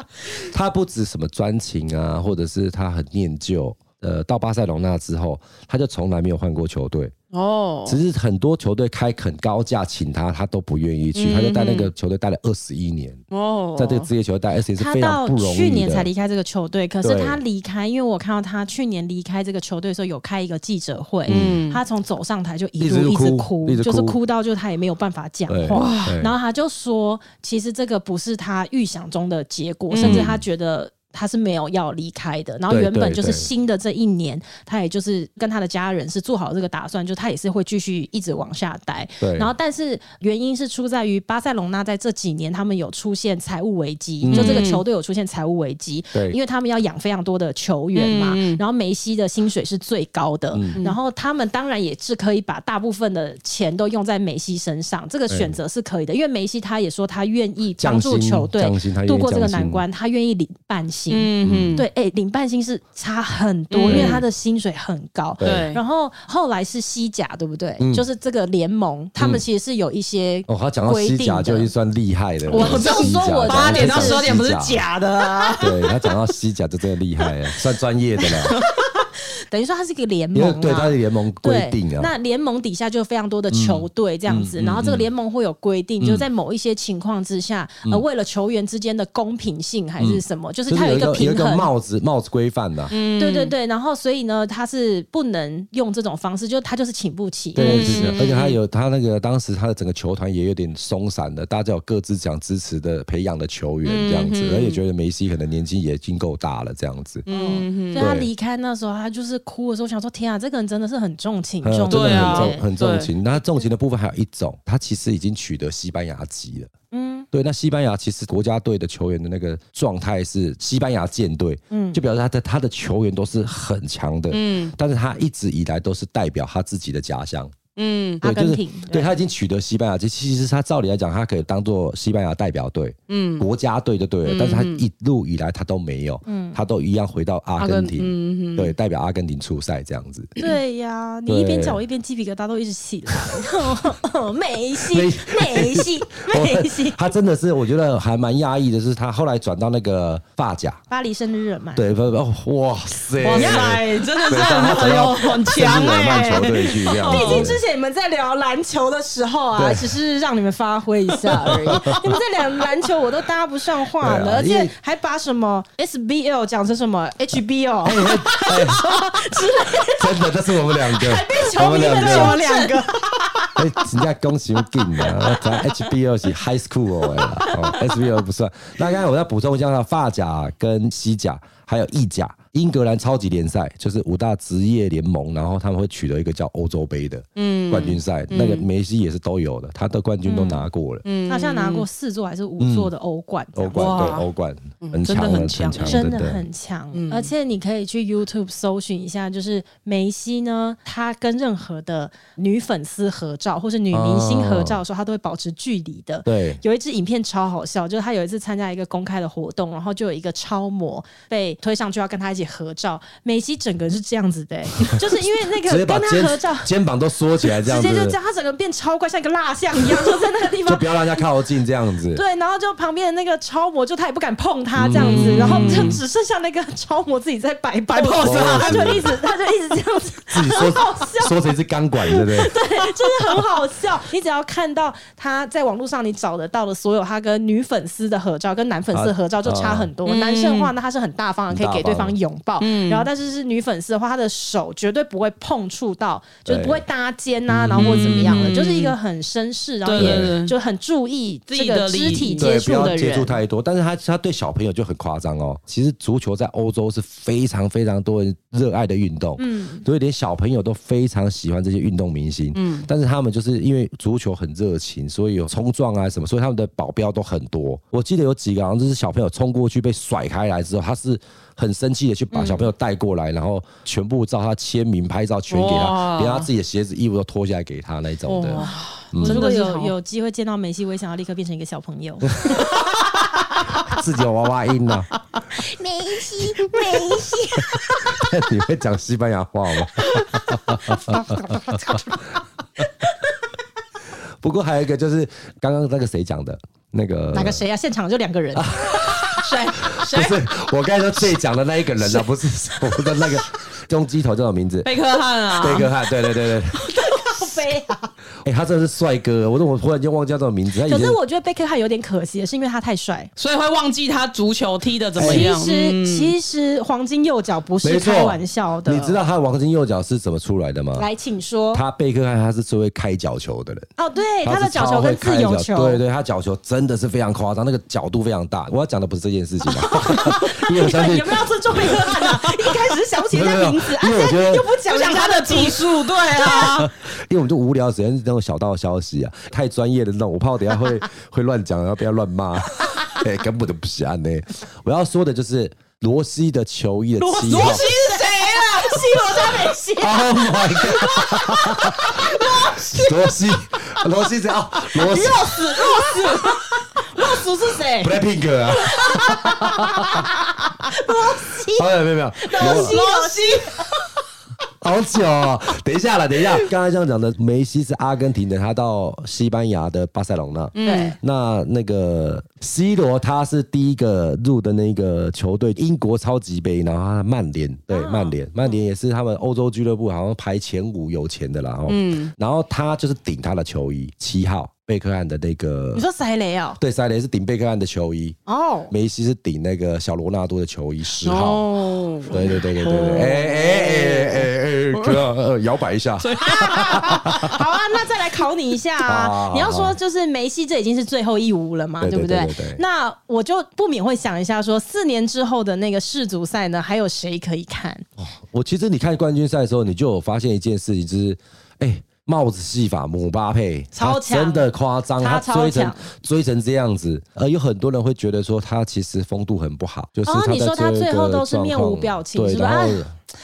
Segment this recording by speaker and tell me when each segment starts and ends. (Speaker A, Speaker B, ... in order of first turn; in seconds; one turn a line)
Speaker A: 0.4-7.1
Speaker B: 7.3-8.0
Speaker A: 7.9-13.2
Speaker B: 11.2-11.9
Speaker B: 13.3-14.1
Speaker A: 13.8-16.1
Speaker C: 14.8-71.7
Speaker A: 17.0-17.4
Speaker B: 21.3-21.8
Speaker A: 21.3-21.6
Speaker A: 22.8-24.2
Speaker A: 25.5-26.4
Speaker B: 25.7-26.2
Speaker B: 29.9-30.3
Speaker A: 30.0-30.4
Speaker A: 32.7-33.5
Speaker A: 39.2-39.5
Speaker A: 44.2-44.7
Speaker B: 44.3-44.8
Speaker B: 48.0-48.6
Speaker A: 50.5-50.8
Speaker A: 55.3-55.6
Speaker A: 57.8-59.8
Speaker B: 61.1-61.9
Speaker A: 61.4-61.8
Speaker B: 63.7-64.2
Speaker A: 63.9-64.2
Speaker A: 65.4-65.7
Speaker B: 65.4-65.8
Speaker A: 67.8-68.1
Speaker A: 69.2-69.4
Speaker A: 70.5-74.8
Speaker C: 72.5-74.3
Speaker B: 72.5-75.7
Speaker C: 75.2-75.7
Speaker A: 75.6-78.6
Speaker C: 78.2-91.7
Speaker A: 80.3-82.1
Speaker A: 83.5-85.1
Speaker A: 86.0-86.3
Speaker A: 90.0-92.9
Speaker B: 92.9-93.5
Speaker C: 93.2-98.2
Speaker A: 97.5-107.2
Speaker B: 97.6-98.6
Speaker B: 103.8-104.8
Speaker B: 107.3-108.1
Speaker C: 107.3-112.7
Speaker A: 108.0-108.3
Speaker A: 111.6-116.7
Speaker B: 111.9-113.1
Speaker C: 116.9-117.3
Speaker A: 117.3-127.6
Speaker C: 121.7-122.0
Speaker B: 124.3-124.7
Speaker B: 127.8-128.2
Speaker C: 128.2-129.1
Speaker A: 128.2-140.3
Speaker B: 133.1-133.5
Speaker B: 134.2-134.8
Speaker C: 136.3-136.6
Speaker B: 137.6-138.7
Speaker C: 140.4-147.0
Speaker A: 141.3-141.8
Speaker A: 144.9-150.8
Speaker C: 150.9-151.8
Speaker A: 151.8-157.6
Speaker B: 153.2-157.5
Speaker C: 153.2-154.9
Speaker C: 157.0-173.6
Speaker A: 159.6-159.9
Speaker A: 161.4-162.2
Speaker B: 161.5-161.8
Speaker A: 164.0-164.7
Speaker A: 167.8-172.4
Speaker B: 171.6-172.8
Speaker A: 173.6-191.0
Speaker C: 175.0-175.6
Speaker C: 177.1-177.9
Speaker B: 187.4-188.7
Speaker C: 190.3-190.6
Speaker B: 191.0-191.9
Speaker C: 191.3-193.9
Speaker A: 192.6-192.9
Speaker A: 193.6-196.4
Speaker B: 193.7-194.3
Speaker B: 194.8-196.1
Speaker C: 195.8-216.7
Speaker B: 196.9-197.3
Speaker A: 203.9-204.8
Speaker A: 206.2-206.6
Speaker A: 215.7-218.2
Speaker C: 217.4-221.2
Speaker A: 220.7-222.2
Speaker C: 222.1-231.5
Speaker A: 224.8-226.0
Speaker B: 225.0-226.0
Speaker B: 228.0-229.0
Speaker A: 228.2-229.2
Speaker A: 230.3-232.6
Speaker C: 232.0-253.4
Speaker A: 238.9-239.9
Speaker B: 240.1-240.7
Speaker A: 241.5-242.2
Speaker B: 242.6-243.1
Speaker A: 246.5-246.8
Speaker A: 247.5-248.4
Speaker B: 247.7-248.9
Speaker B: 249.8-250.5
Speaker A: 250.0-250.3
Speaker B: 251.5-252.5
Speaker A: 252.3-279.5
Speaker C: 259.4-259.9
Speaker B: 262.6-262.9
Speaker C: 272.3-272.6
Speaker B: 275.5-276.5
Speaker B: 278.3-279.9
Speaker C: 278.6-284.0
Speaker A: 282.4-282.9
Speaker A: 283.8-285.1
Speaker C: 285.5-288.3
Speaker A: 287.6-292.0
Speaker C: 290.1-292.3
Speaker A: 294.4-297.6
Speaker C: 297.3-299.5
Speaker A: 298.6-304.9
Speaker B: 299.4-300.4
Speaker C: 302.0-303.3
Speaker B: 304.9-305.9
Speaker A: 305.6-306.8
Speaker C: 306.7-308.1
Speaker A: 308.4-311.2
Speaker C: 310.8-313.3
Speaker B: 313.4-316.3
Speaker A: 315.2-315.5
Speaker C: 315.2-319.2
Speaker A: 317.8-321.1
Speaker C: 321.0-321.8
Speaker A: 321.7-323.9
Speaker C: 324.0-326.0
Speaker A: 324.4-332.1
Speaker C: 329.8-336.6
Speaker A: 333.3-334.7
Speaker B: 334.9-336.9
Speaker A: 336.4-347.9
Speaker C: 347.2-353.3
Speaker B: 347.4-349.5
Speaker A: 350.0-355.9
Speaker C: 354.8-358.2
Speaker B: 355.7-356.4
Speaker A: 358.0-360.3
Speaker C: 358.8-363.9
Speaker A: 361.7-363.0
Speaker B: 362.6-364.1
Speaker A: 364.8-386.1
Speaker B: 370.8-371.1
Speaker C: 370.8-371.2
Speaker C: 377.9-378.8
Speaker B: 381.9-382.3
Speaker C: 385.9-386.8
Speaker A: 386.8-388.4
Speaker C: 388.5-388.9
Speaker A: 388.9-391.7
Speaker B: 391.2-394.1
Speaker A: 392.3-397.6
Speaker C: 393.1-394.4
Speaker B: 394.9-395.2
Speaker B: 396.2-397.2
Speaker C: 396.4-408.1
Speaker A: 399.0-400.0
Speaker A: 402.0-402.8
Speaker A: 408.2-423.1
Speaker C: 413.9-414.7
Speaker C: 415.2-416.1
Speaker C: 420.3-423.1